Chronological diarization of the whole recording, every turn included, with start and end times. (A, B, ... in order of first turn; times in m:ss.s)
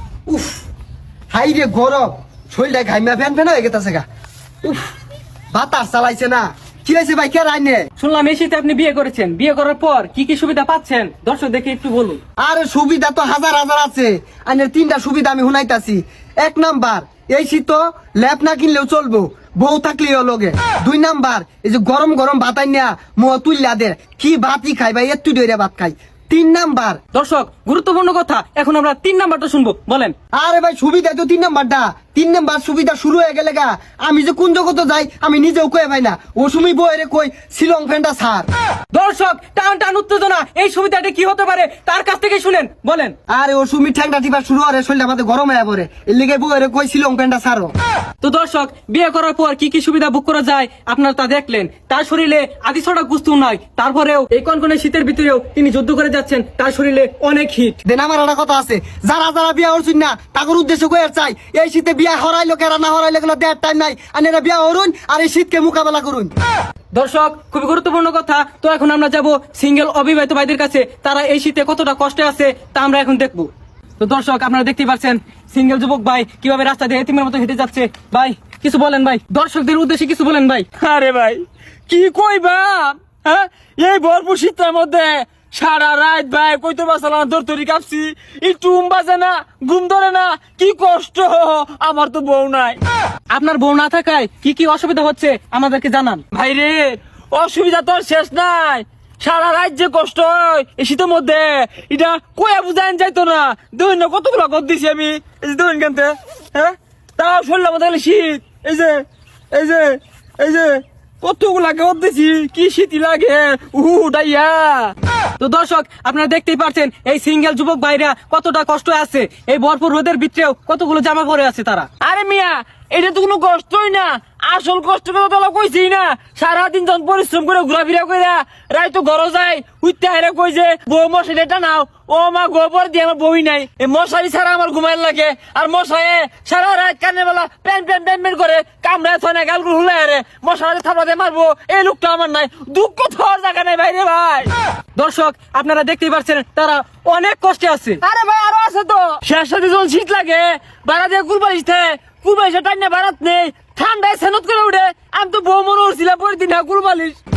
0:00.3-0:00.6 A
0:01.3-0:04.0 A
0:05.5-0:07.9 A
0:08.0-0:12.2 B
0:12.4-0:27.0 A
0:27.1-0:30.1 B
0:30.3-0:38.5 A
0:38.9-0:43.1 B
0:43.3-0:47.7 A
0:48.2-0:57.8 B
0:57.8-1:06.3 A
1:06.9-1:20.7 B
1:20.8-1:32.8 C
1:33.3-1:36.2 B
1:36.3-1:54.9 C
1:55.4-2:01.9 B
2:02.0-2:24.5 C
2:25.0-2:28.0 B
2:28.0-2:37.2 C